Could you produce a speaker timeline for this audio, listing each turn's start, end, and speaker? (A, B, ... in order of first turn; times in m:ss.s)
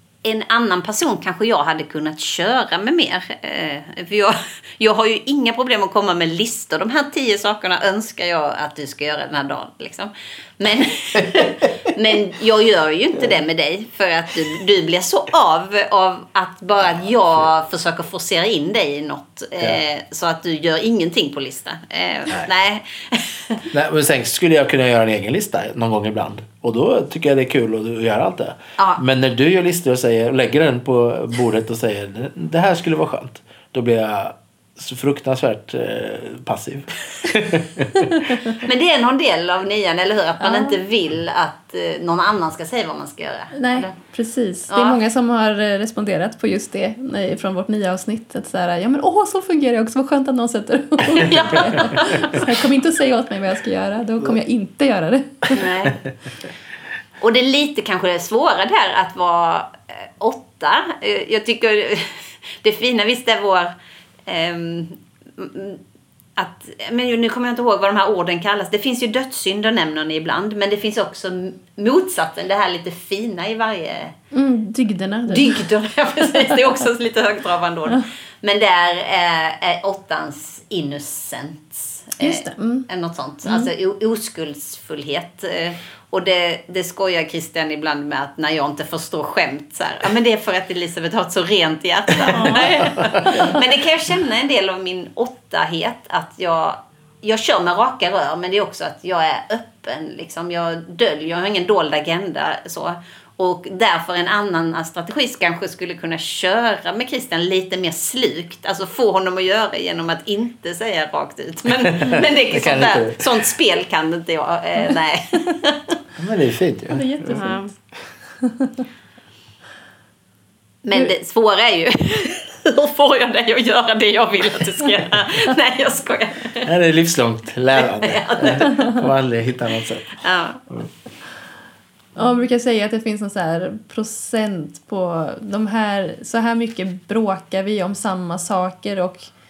0:00.2-0:23.7 A
0:23.7-0:38.5 B
0:28.8-0:29.0 A
0:38.6-0:43.9 A
0:40.4-0:40.8 C
0:43.5-0:55.6 C
0:44.7-0:45.0 A
0:51.1-0:52.4 A
0:55.5-0:56.0 A
0:57.2-1:03.8 A
1:04.3-1:05.8 A
1:06.4-1:14.2 A
1:14.3-1:15.6 C
1:15.3-1:55.9 A
1:22.2-1:22.9 C
1:23.4-1:23.7 C
1:32.3-1:32.7 C
1:33.1-1:33.3 B
1:33.2-1:33.5 C
1:52.0-1:53.4 B
1:56.2-1:57.4 B
1:56.9-1:57.7 C
1:57.3-1:57.7 A
1:58.4-1:58.7 C
2:00.8-2:06.7 A
2:06.6-2:10.9 B
2:07.7-2:08.8 A
2:10.2-2:10.6 A
2:12.2-2:19.3 C